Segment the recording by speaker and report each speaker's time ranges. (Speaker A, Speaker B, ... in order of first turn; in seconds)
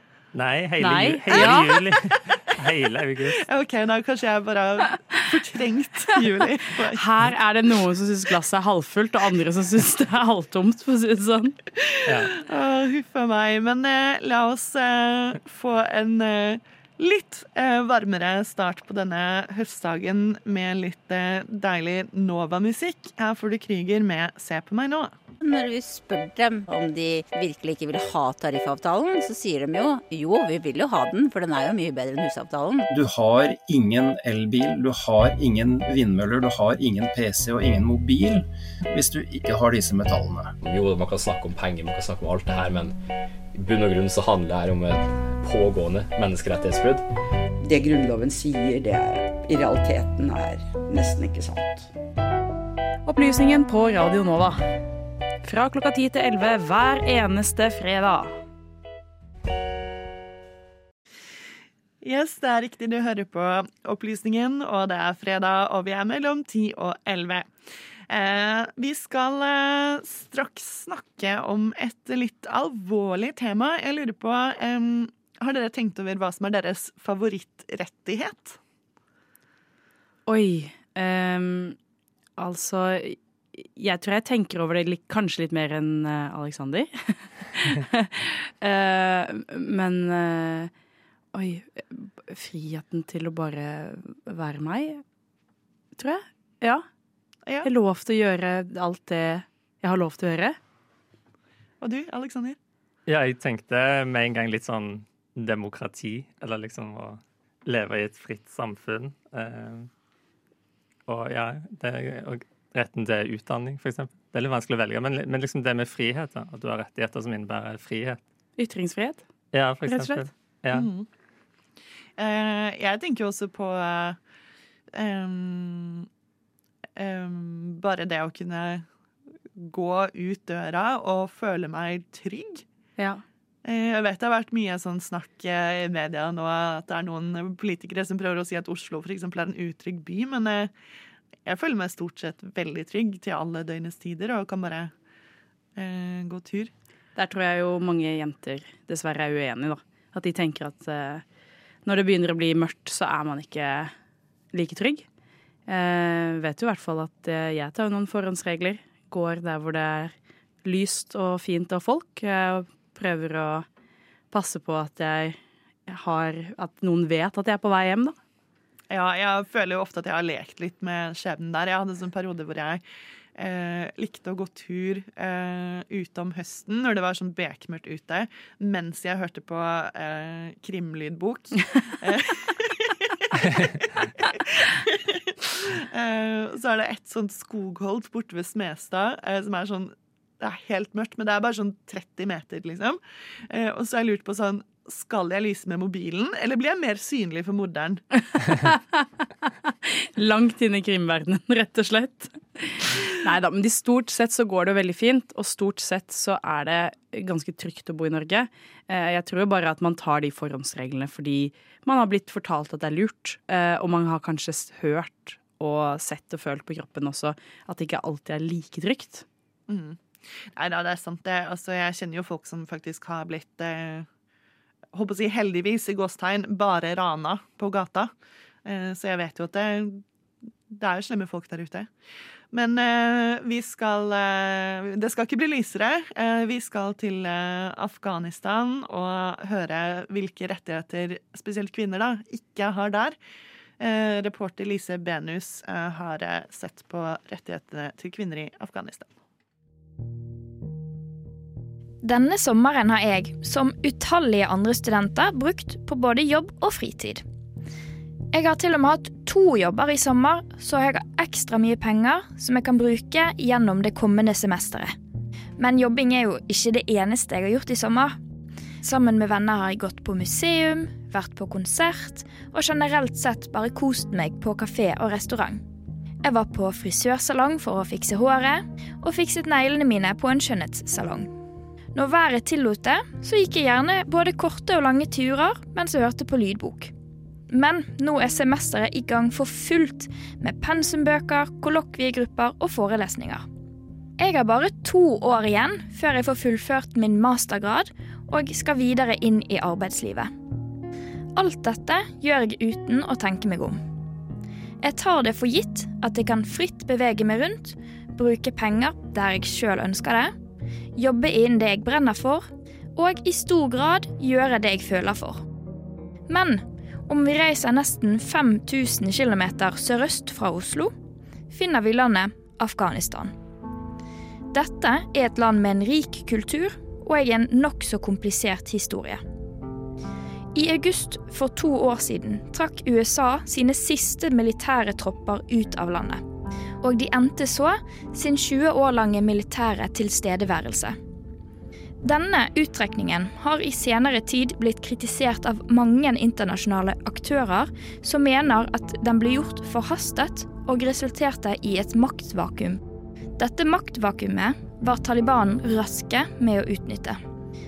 Speaker A: 0.3-3.4, 12.1-12.3, 103.1-109.9, 111.1-118.2, 119.5-120.9
Speaker B: 0.8-1.9, 6.8-11.6, 53.1-54.6, 55.4-58.3, 80.3-81.8, 82.4-90.7, 91.3-95.0, 96.0-96.8, 97.6-100.6, 118.6-119.2, 119.8-120.3, 147.2-151.2, 151.8-153.9, 154.5-155.1, 155.7-163.7, 164.3-168.2, 198.3-219.2
Speaker C: 1.3-1.7, 3.4-7.0, 11.8-25.1, 62.0-67.5, 68.1-78.6, 101.8-102.6, 120.7-121.1, 122.2-124.2, 124.9-126.1, 127.0-128.8, 129.6-132.6, 133.6-140.7, 141.5-144.9, 145.8-146.7, 168.9-172.8, 173.4-198.0, 219.7-224.1, 224.9-228.1, 228.7-230.0, 230.7-231.9, 232.5-243.2, 243.8-249.1
Speaker D: 25.4-32.9
Speaker E: 32.9-40.6
Speaker F: 40.6-42.9, 43.5-47.1
Speaker G: 47.6-51.9
Speaker H: 252.0-257.2, 258.3-264.9, 265.6-268.2, 268.8-275.6, 276.2-281.3, 281.9-286.9, 287.5-293.5, 294.2-300.3, 301.4-303.8, 304.8-310.3, 311.0-315.4, 316.3-320.9, 321.5-323.3, 324.5-329.2, 330.5-336.2, 336.8-341.0, 342.0-352.8, 353.4-357.2